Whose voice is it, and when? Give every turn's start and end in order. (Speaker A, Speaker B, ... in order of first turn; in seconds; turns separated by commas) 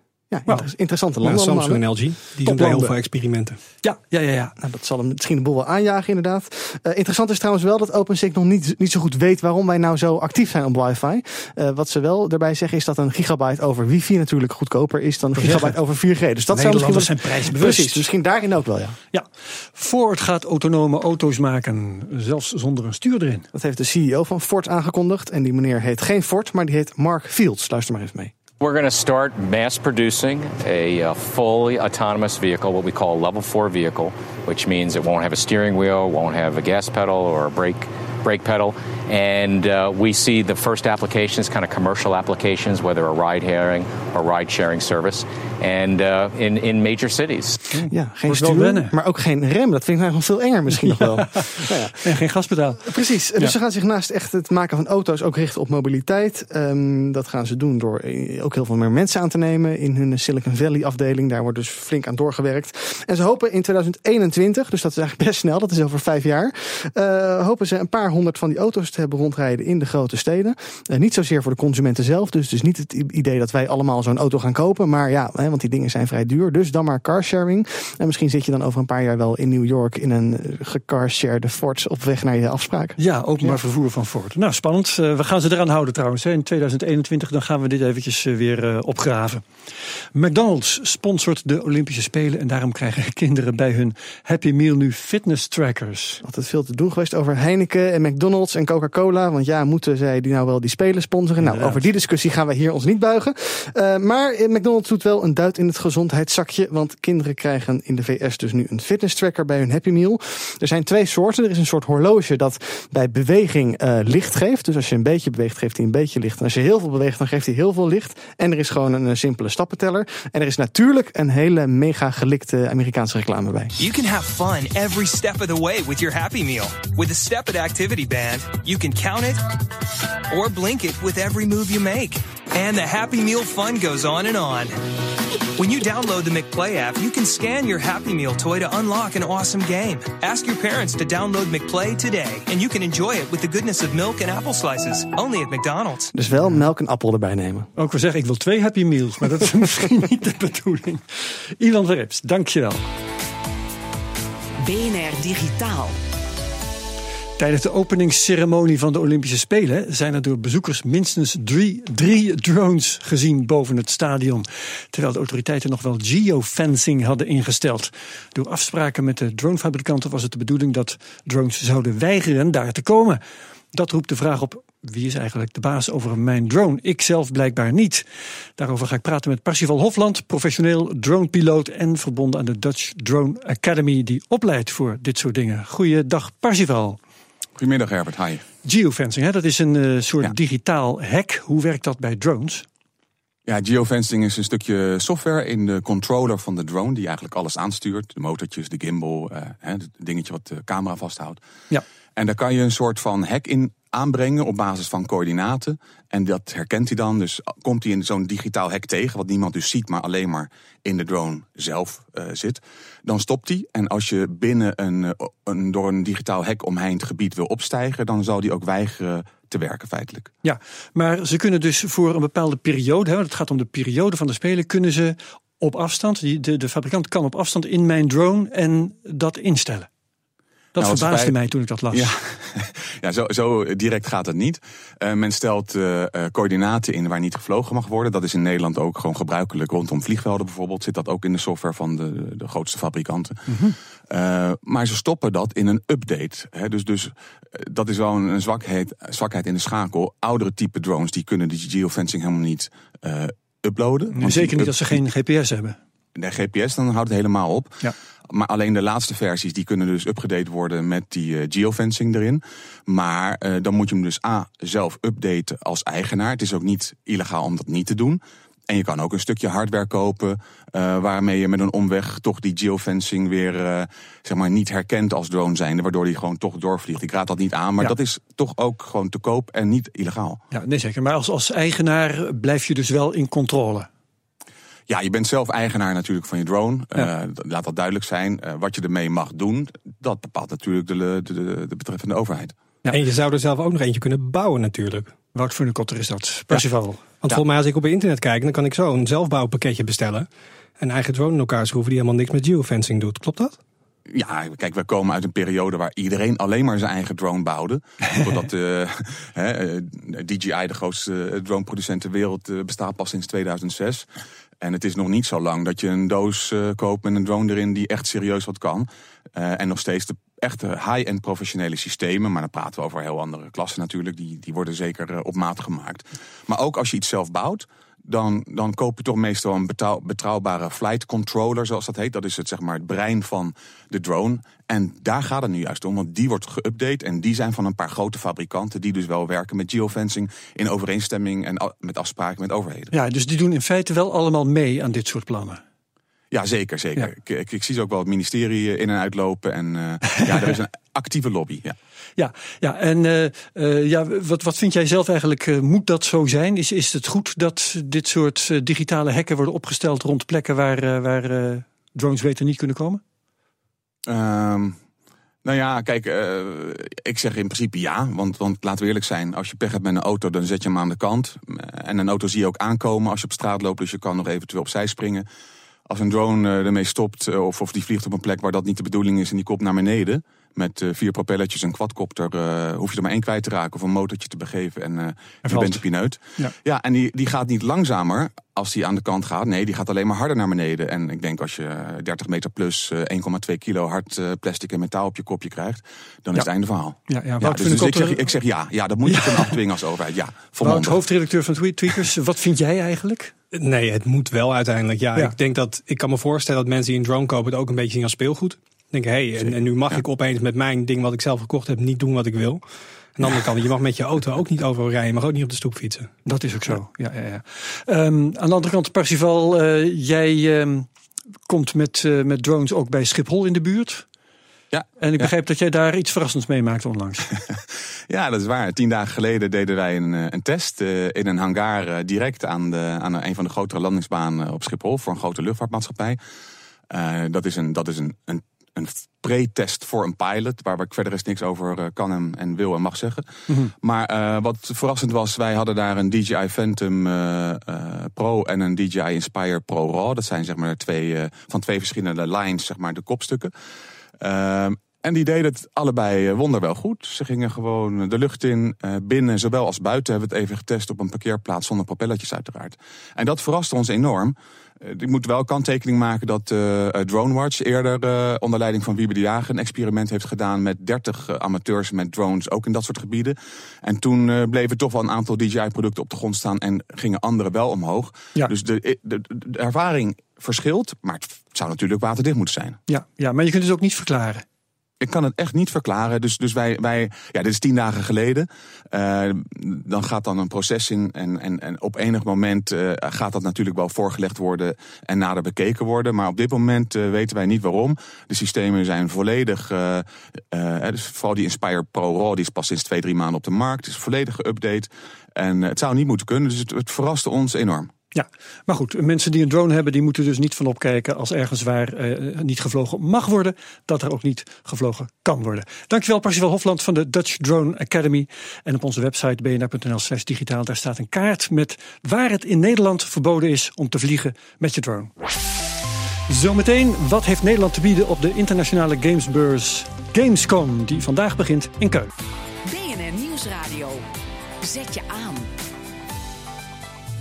Speaker A: 0.3-1.8, Speaker B: 1.2-3.6, Speaker C: 2.4-2.9, Speaker C: 3.8-4.5, Speaker A: 4.6-19.0, Speaker C: 15.3-15.8, Speaker C: 16.5-18.1, Speaker C: 19.1-23.5, Speaker A: 23.5-28.3, Speaker D: 28.6-47.6, Speaker C: 47.7-49.0, Speaker A: 47.9-52.1, Speaker C: 50.8-53.5, Speaker A: 52.8-83.6, Speaker C: 83.0-89.5, Speaker C: 90.1-96.2, Speaker A: 96.2-123.7, Speaker C: 101.4-101.8, Speaker E: 123.8-129.4, Speaker E: 130.3-134.8, Speaker E: 135.6-146.1, Speaker A: 146.1-147.7, Speaker C: 147.8-152.8, Speaker F: 154.6-155.9, Speaker C: 157.4-173.2, Speaker C: 173.7-178.0, Speaker C: 178.6-187.0, Speaker G: 187.6-188.4, Speaker C: 188.6-192.6, Speaker G: 193.5-201.4, Speaker G: 202.2-220.3, Speaker C: 220.4-229.9, Speaker C: 230.8-232.1, Speaker G: 230.8-231.4, Speaker G: 231.9-243.5, Speaker C: 243.5-243.8, Speaker G: 244.1-255.0, Speaker C: 254.1-255.8, Speaker G: 256.1-280.4, Speaker C: 280.5-283.9, Speaker G: 284.9-292.5, Speaker B: 292.9-295.1, Speaker C: 295.3-297.2, Speaker B: 297.2-300.3, Speaker B: 300.8-303.6, Speaker G: 304.1-314.1, Speaker G: 314.6-342.9, Speaker C: 342.9-345.6, Speaker G: 346.3-351.8, Speaker C: 352.2-363.0, Speaker G: 364.1-364.8, Speaker G: 365.4-375.2, Speaker G: 375.9-401.0, Speaker C: 385.4-385.8, Speaker C: 397.1-398.3, Speaker C: 399.1-399.6, Speaker C: 400.6-403.3, Speaker B: 403.5-412.6, Speaker B: 413.2-416.1, Speaker C: 416.2-420.9, Speaker C: 421.5-424.1, Speaker G: 424.7-425.3, Speaker C: 425.0-427.3, Speaker G: 428.1-436.2, Speaker G: 436.9-453.5, Speaker G: 454.2-482.8, Speaker C: 482.9-484.4, Speaker G: 485.0-507.9, Speaker C: 508.1-525.1, Speaker C: 526.3-532.1, Speaker F: 532.7-534.0, Speaker F: 534.6-535.5